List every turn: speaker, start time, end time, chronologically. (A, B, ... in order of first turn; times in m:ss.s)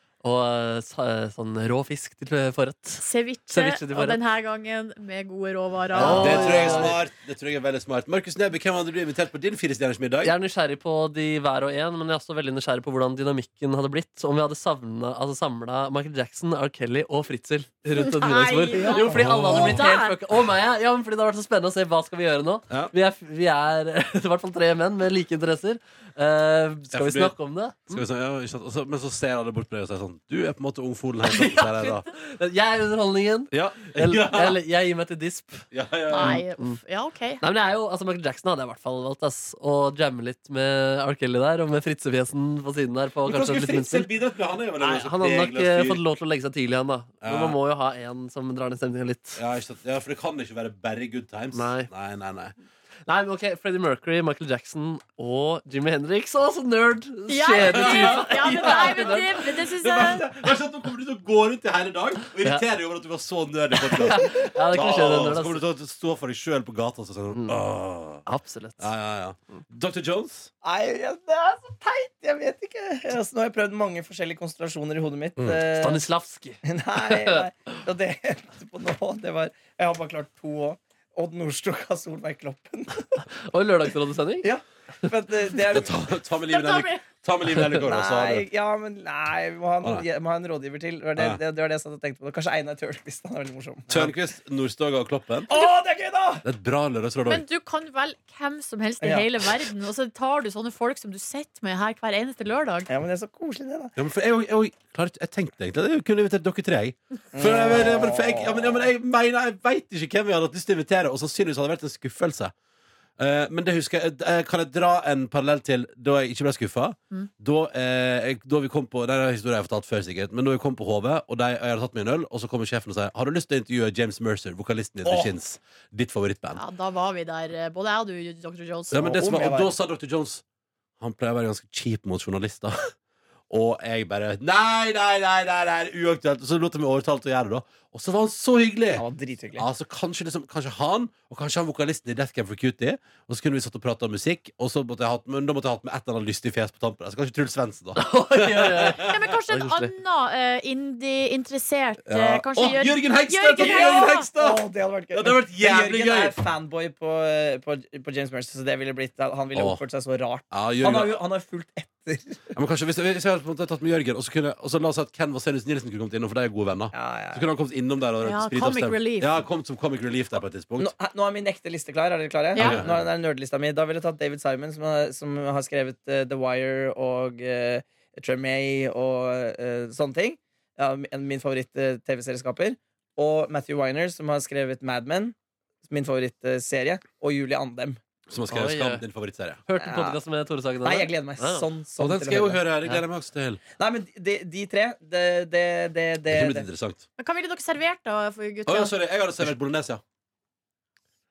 0:00.2-0:04.2 A
0:03.0-0:06.9 B
0:06.0-0:07.0 A
0:06.0-0:10.4 C
0:10.2-0:28.0 A
0:17.9-0:20.2 B
0:18.7-0:19.2 D
0:19.1-0:19.9 C
0:26.9-0:27.3 C
0:27.9-0:32.1 C
0:31.3-0:35.7 A
0:33.5-0:34.6 C
0:35.7-0:36.4 C
0:36.1-0:37.4 B
0:36.2-0:36.8 A
0:37.4-0:44.1 A
0:43.2-0:46.0 C
0:44.8-0:49.4 A
0:47.2-0:47.6 C
0:49.4-0:52.6 C
0:51.5-0:51.9 A
0:53.1-0:59.5 A
0:57.3-1:00.3 B
0:57.6-1:08.2 C
1:03.9-1:05.6 A
1:07.3-1:07.6 A
1:08.3-1:08.9 A
1:08.8-1:10.5 C
1:10.6-1:16.1 D
1:15.7-1:17.4 A
1:16.6-1:23.2 D
1:23.5-1:24.5 A
1:24.4-1:26.0 D
1:25.7-1:28.5 C
1:26.5-1:27.0 B
1:27.6-1:34.1 D
1:33.9-1:35.6 C
1:35.5-1:36.4 D
1:36.4-1:37.4 C
1:37.3-1:42.9 B
1:39.0-1:39.3 D
1:42.9-1:44.0 D
1:44.0-1:52.5 C
1:47.3-1:48.8 D
1:53.2-2:06.6 C
2:05.0-2:05.3 D
2:06.6-2:09.0 B
2:08.9-2:10.4 C
2:09.0-2:09.7 D
2:11.0-2:12.9 C
2:13.5-2:29.2 C
2:18.9-2:19.7 D
2:28.0-2:29.9 A
2:29.0-2:34.3 B
2:32.1-2:36.4 C
2:33.6-2:42.5 D
2:39.5-2:39.8 C
2:40.5-2:41.2 C
2:42.5-2:50.9 C
2:46.9-2:47.4 D
2:48.2-2:49.4 B
2:50.8-3:05.4 D
2:52.5-2:52.8 B
2:52.6-2:53.1 C
3:05.9-3:08.0 D
3:08.3-3:09.6 C
3:08.5-3:09.0 A
3:09.7-3:11.7 A
3:09.8-3:10.2 D
3:10.8-3:12.6 D
3:12.0-3:13.6 C
3:13.8-3:16.7 D
3:16.3-3:17.0 C
3:17.2-3:19.0 B
3:18.7-3:20.0 C